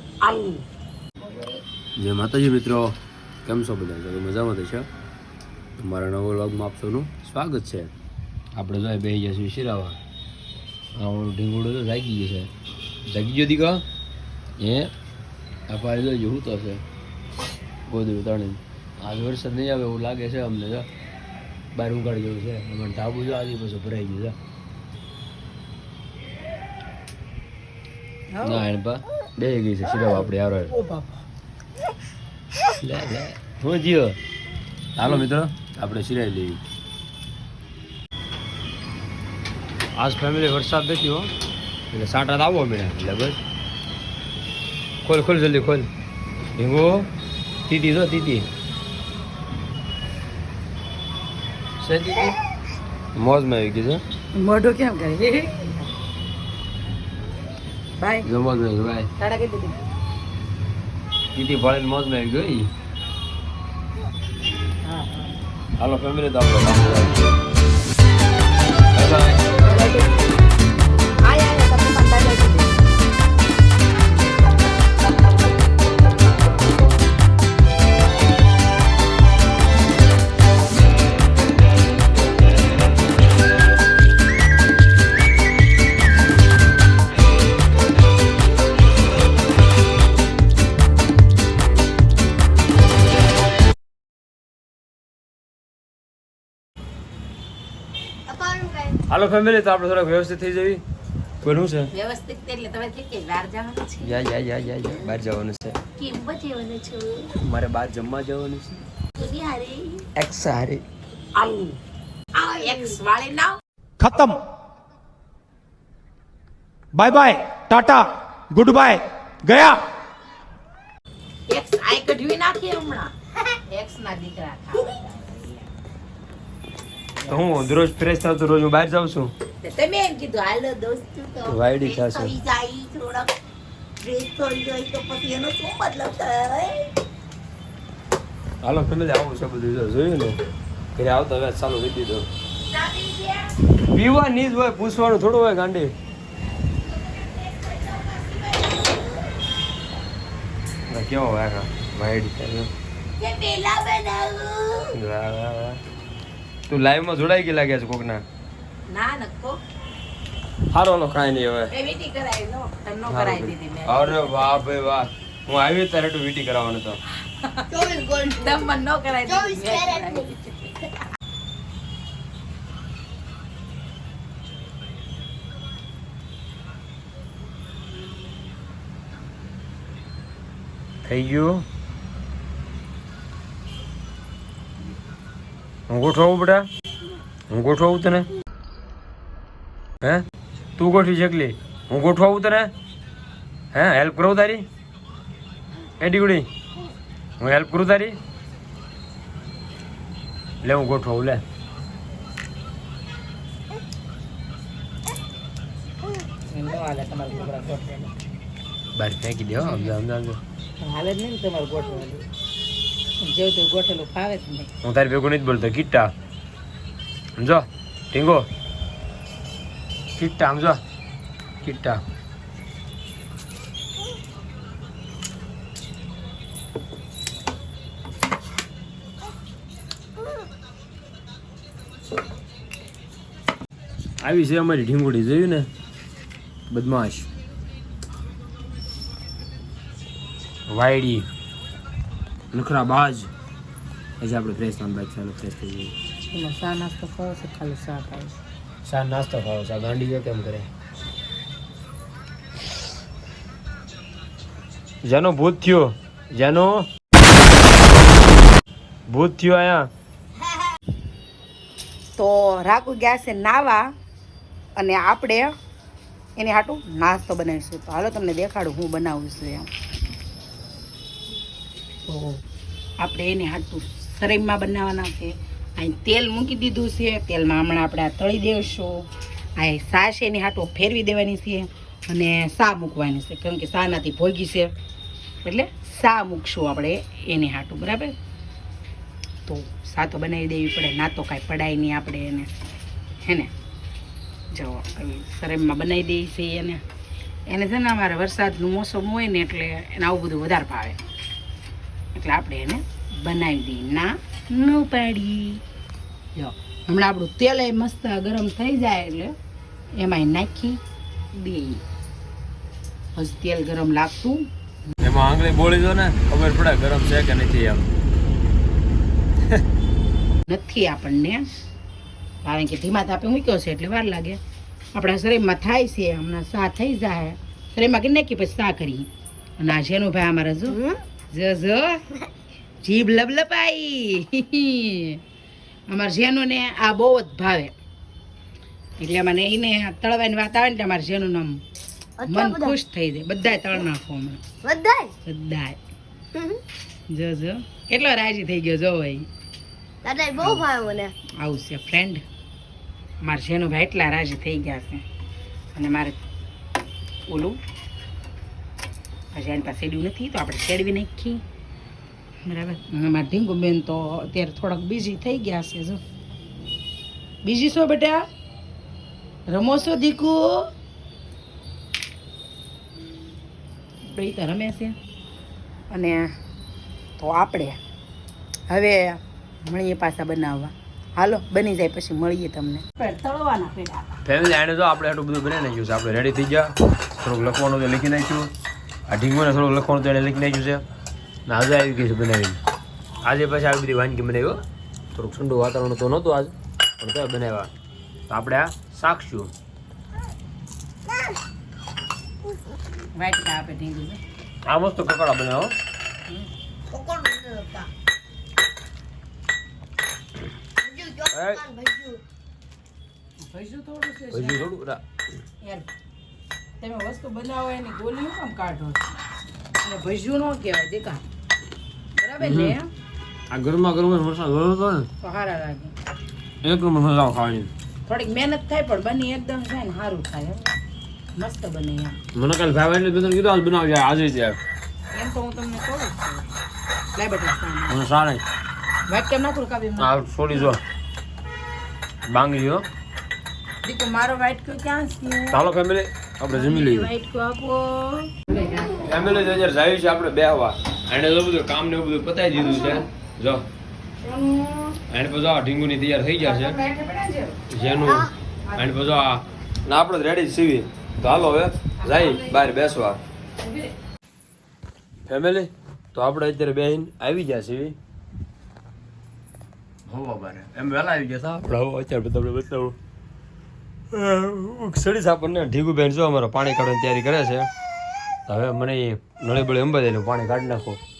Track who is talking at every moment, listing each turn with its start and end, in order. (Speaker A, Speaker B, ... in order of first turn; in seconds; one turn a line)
Speaker A: 0.2-0.6
Speaker A: 1.2-1.6
Speaker B: 2.0-4.9
Speaker B: 5.8-7.9
Speaker B: 8.6-10.0
Speaker B: 10.9-12.5
Speaker B: 13.1-13.8
Speaker B: 14.6-14.9
Speaker B: 15.7-16.8
Speaker B: 17.9-20.9
Speaker B: 21.7-24.4
Speaker C: 28.3-28.6
Speaker B: 28.4-30.7
Speaker C: 30.1-31.2
Speaker B: 32.8-34.2
Speaker B: 34.9-36.6
Speaker B: 39.9-41.3
Speaker B: 41.9-43.4
Speaker B: 45.0-45.9
Speaker B: 46.5-47.1
Speaker B: 47.7-48.5
Speaker B: 51.8-52.4
Speaker B: 53.1-54.0
Speaker C: 54.3-55.8
Speaker C: 58.0-58.3
Speaker B: 58.2-59.1
Speaker C: 59.2-59.8
Speaker B: 61.3-62.7
Speaker C: 64.8-65.3
Speaker B: 65.8-67.2
Speaker B: 68.9-69.5
Speaker C: 69.6-70.1
Speaker C: 71.2-72.7
Speaker D: 98.3-99.0
Speaker B: 99.1-100.8
Speaker B: 101.4-101.9
Speaker C: 101.9-104.2
Speaker B: 104.0-105.8
Speaker A: 106.0-107.3
Speaker B: 107.4-108.8
Speaker A: 109.2-110.0
Speaker B: 110.2-110.8
Speaker C: 111.3-111.8
Speaker C: 112.3-113.6
Speaker A: 112.7-113.0
Speaker E: 114.0-114.4
Speaker E: 116.9-119.8
Speaker C: 121.5-125.7
Speaker B: 127.3-129.3
Speaker A: 129.6-133.3
Speaker B: 131.4-132.3
Speaker A: 134.0-136.9
Speaker B: 138.6-140.4
Speaker B: 140.9-142.3
Speaker A: 142.7-143.5
Speaker B: 143.9-145.9
Speaker A: 146.8-149.2
Speaker B: 150.9-152.7
Speaker A: 153.2-154.9
Speaker B: 154.9-155.8
Speaker B: 156.7-158.2
Speaker C: 158.9-159.6
Speaker B: 160.7-161.7
Speaker C: 161.7-164.6
Speaker B: 163.1-167.0
Speaker C: 167.4-167.7
Speaker D: 167.7-168.6
Speaker C: 168.2-170.8
Speaker D: 169.2-170.3
Speaker B: 181.0-181.6
Speaker B: 185.9-186.7
Speaker B: 187.5-188.3
Speaker B: 190.8-192.7
Speaker B: 193.7-194.7
Speaker B: 196.0-196.5
Speaker B: 197.4-198.2
Speaker B: 200.6-201.4
Speaker C: 206.5-208.1
Speaker B: 208.9-210.4
Speaker C: 209.6-209.9
Speaker C: 210.8-212.3
Speaker C: 213.2-214.7
Speaker B: 214.8-216.1
Speaker B: 217.3-218.5
Speaker B: 220.2-220.8
Speaker B: 221.6-222.0
Speaker B: 234.2-235.7
Speaker B: 236.7-237.3
Speaker B: 240.7-241.2
Speaker B: 242.5-243.3
Speaker B: 244.2-245.9
Speaker C: 246.2-248.4
Speaker B: 248.8-250.7
Speaker B: 255.0-256.9
Speaker B: 259.1-259.9
Speaker C: 262.2-263.8
Speaker C: 264.8-265.5
Speaker C: 266.4-269.7
Speaker C: 272.1-272.4
Speaker C: 273.0-284.7
Speaker C: 285.4-288.1
Speaker C: 289.4-292.5
Speaker C: 293.2-293.5
Speaker C: 294.5-296.8
Speaker C: 297.5-301.0
Speaker C: 302.1-305.6
Speaker C: 306.3-309.3
Speaker C: 310.0-310.8
Speaker C: 311.3-311.8
Speaker C: 313.1-314.4
Speaker B: 315.0-317.9
Speaker C: 320.5-321.4
Speaker C: 322.4-324.4
Speaker C: 324.9-329.1
Speaker C: 329.6-330.8
Speaker D: 330.7-331.0
Speaker C: 331.3-332.0
Speaker C: 332.8-335.2
Speaker C: 335.9-337.7
Speaker C: 339.0-341.6
Speaker D: 342.2-342.8
Speaker C: 342.3-344.5
Speaker D: 344.6-345.1
Speaker C: 345.2-345.8
Speaker D: 346.3-346.6
Speaker C: 347.1-349.3
Speaker D: 350.0-351.1
Speaker C: 350.4-350.6
Speaker C: 351.4-352.2
Speaker C: 353.2-355.0
Speaker C: 355.7-356.2
Speaker C: 357.3-357.6
Speaker C: 359.3-361.4
Speaker C: 362.4-366.0
Speaker C: 367.4-368.2
Speaker C: 369.5-370.7
Speaker C: 374.0-374.9
Speaker C: 375.9-376.2
Speaker C: 377.2-377.8
Speaker C: 378.7-384.1
Speaker B: 384.2-388.5
Speaker B: 389.1-390.8
Speaker B: 391.4-392.6
Speaker B: 393.2-394.6
Speaker B: 395.1-397.7
Speaker B: 398.3-399.5
Speaker C: 403.1-404.2
Speaker B: 404.6-405.7
Speaker D: 406.9-407.9
Speaker D: 410.8-412.2
Speaker B: 411.3-411.6
Speaker C: 413.4-414.7
Speaker B: 414.3-415.0
Speaker C: 415.6-415.9
Speaker C: 416.8-419.2
Speaker C: 419.8-421.2
Speaker C: 422.1-422.9
Speaker B: 422.4-422.8
Speaker B: 423.5-425.1
Speaker C: 425.2-425.9
Speaker B: 426.6-427.7
Speaker C: 428.1-430.7
Speaker C: 431.4-432.2
Speaker B: 432.3-434.6
Speaker C: 435.1-436.5
Speaker C: 437.1-438.0
Speaker B: 437.9-438.4
Speaker C: 439.1-440.8
Speaker B: 440.0-440.8
Speaker B: 442.3-442.8
Speaker C: 443.8-445.6
Speaker B: 445.5-447.1
Speaker C: 446.5-448.9
Speaker B: 448.9-453.6
Speaker C: 454.2-455.0
Speaker B: 455.1-456.8
Speaker C: 456.4-457.6
Speaker B: 457.7-463.2
Speaker D: 458.1-458.3
Speaker C: 458.6-458.9
Speaker C: 462.0-462.8
Speaker C: 463.6-463.9
Speaker B: 465.2-467.9
Speaker B: 470.1-473.0
Speaker B: 474.1-477.7
Speaker B: 478.5-481.0